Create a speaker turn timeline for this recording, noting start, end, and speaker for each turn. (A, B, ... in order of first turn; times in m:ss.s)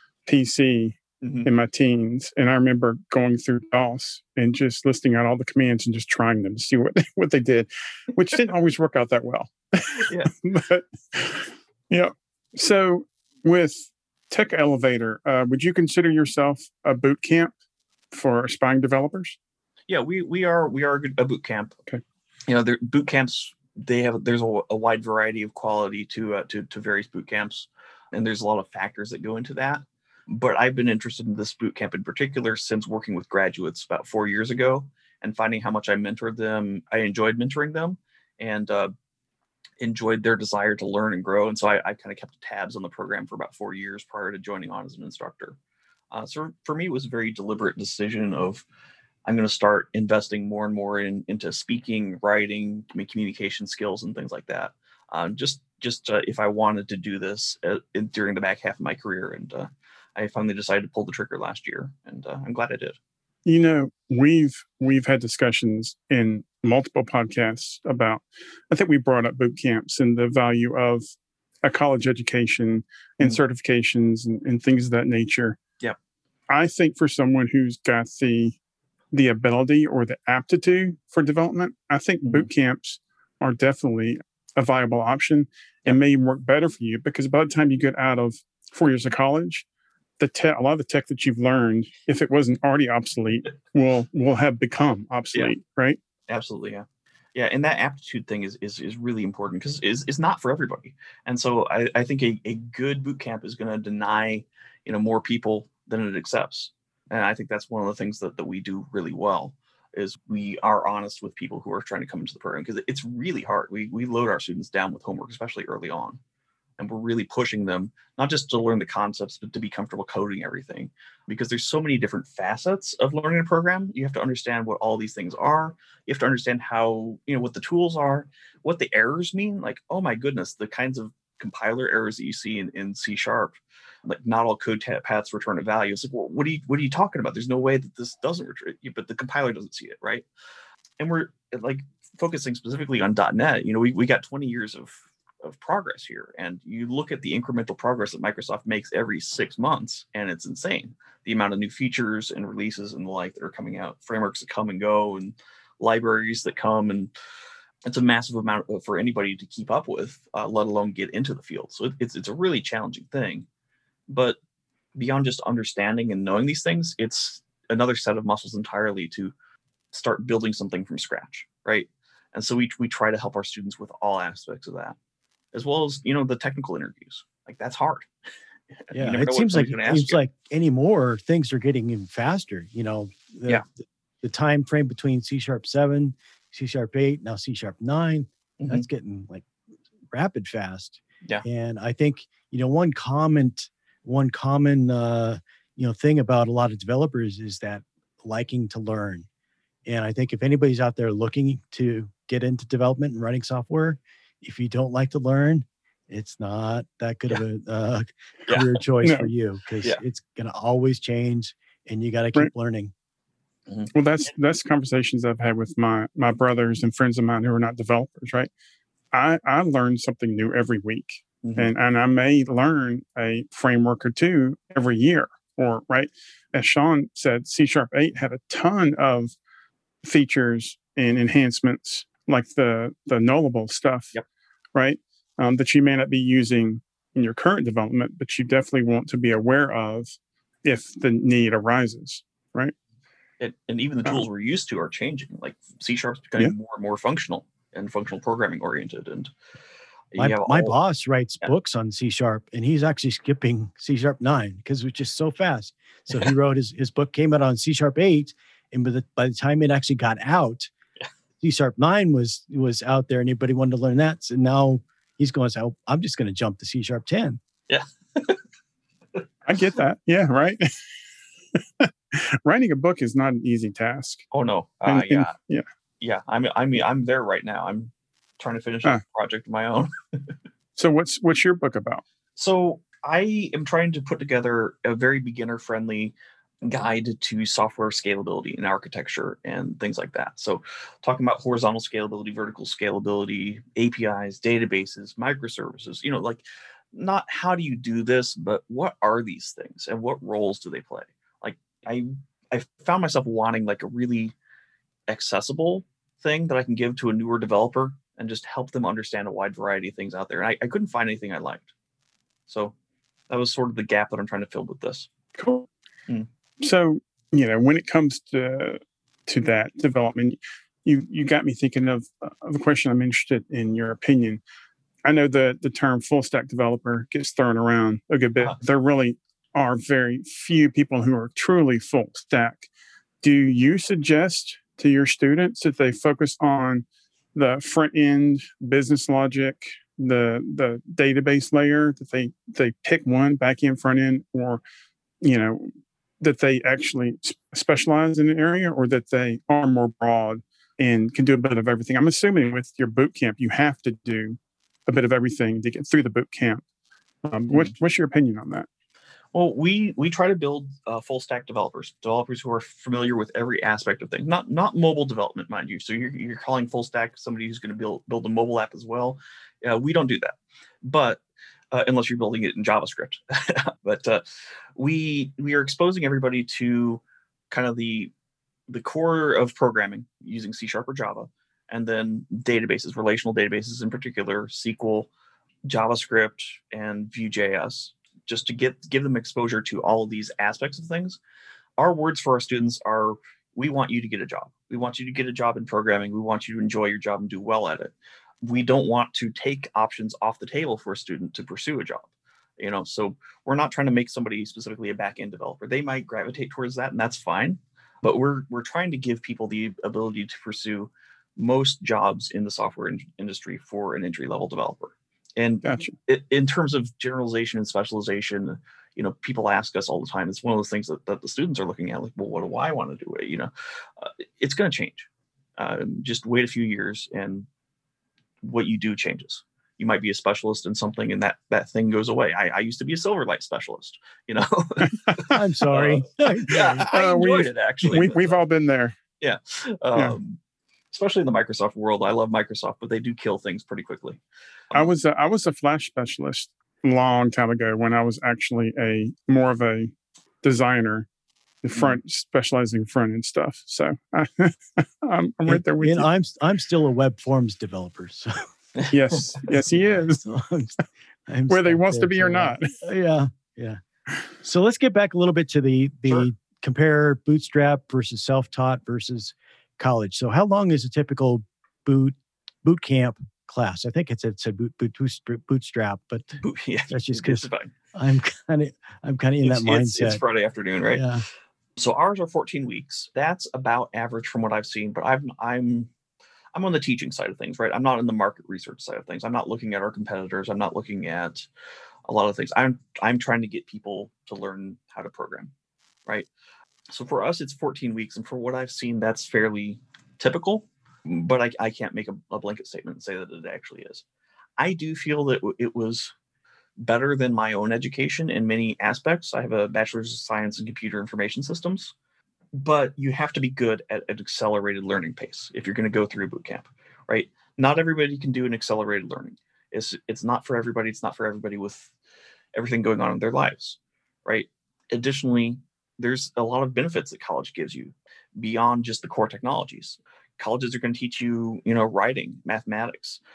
0:00.3-0:17.5 A
0:01.2-0:01.5 B
0:10.0-0:10.3 B
0:18.1-0:19.4 A
0:19.9-0:21.8 B
0:22.5-0:38.9 B
0:39.8-0:45.6 B
0:46.1-0:48.6 B
0:49.2-1:03.0 B
1:03.5-1:11.0 A
1:11.6-1:15.6 A
1:16.5-1:18.6 A
1:19.1-1:29.7 A
1:30.2-1:36.0 A
1:36.3-1:56.2 B
1:56.8-2:20.3 B
2:21.0-2:37.1 B
2:37.9-2:43.5 B
2:44.1-2:44.4 B
2:45.0-2:49.3 B
2:49.9-2:55.0 B
2:55.5-2:58.1 B
2:58.9-3:00.2 B
2:58.9-3:09.5 C
3:08.6-3:08.8 B
3:10.1-3:19.3 C
3:19.9-3:32.9 C
3:28.5-3:28.8 B
3:29.0-3:29.3 A
3:33.7-3:33.9 B
3:33.9-3:38.5 A
3:39.1-3:49.3 A
3:41.4-3:41.7 B
3:50.0-3:54.1 A
3:54.8-4:02.7 A
4:03.4-4:09.3 B
4:10.1-4:10.8 B
4:10.2-4:20.7 C
4:21.4-4:27.4 C
4:27.7-4:28.4 B
4:29.4-4:30.7 A
4:31.6-4:34.3 A
4:34.3-4:35.3 B
4:34.9-4:35.7 A
4:36.0-4:39.9 B
4:40.8-4:42.0 A
4:42.4-5:04.4 B
5:05.1-5:11.7 B
5:12.5-5:12.7 B
5:13.3-5:15.1 B
5:15.4-5:15.7 A
5:16.6-5:24.4 A
5:25.0-5:32.7 A
5:33.2-5:44.6 A
5:45.2-5:45.7 A
5:46.2-5:56.6 A
5:57.2-5:58.7 A
5:59.3-6:14.2 B
6:14.8-6:18.1 B
6:18.7-6:25.1 B
6:25.7-6:31.2 B
6:31.8-7:07.5 B
6:55.6-6:55.9 A
7:08.4-7:18.4 B
7:15.3-7:16.9 C
7:16.9-7:19.0 A
7:19.2-7:20.4 B
7:20.9-7:24.2 B
7:24.7-7:31.1 A
7:31.6-7:36.1 A
7:31.7-7:32.0 B
7:35.5-7:38.5 C
7:38.9-7:40.2 A
7:39.7-7:43.8 C
7:41.5-7:42.7 A
7:44.4-8:00.2 C
7:56.4-7:57.7 B
7:59.4-8:01.0 B
8:00.9-8:01.2 C
8:01.8-8:05.9 B
8:06.5-8:11.5 B
8:12.1-8:15.5 B
8:16.9-8:24.0 B
8:24.6-8:26.1 B
8:26.8-8:31.9 B
8:32.6-8:41.9 B
8:42.5-8:53.2 B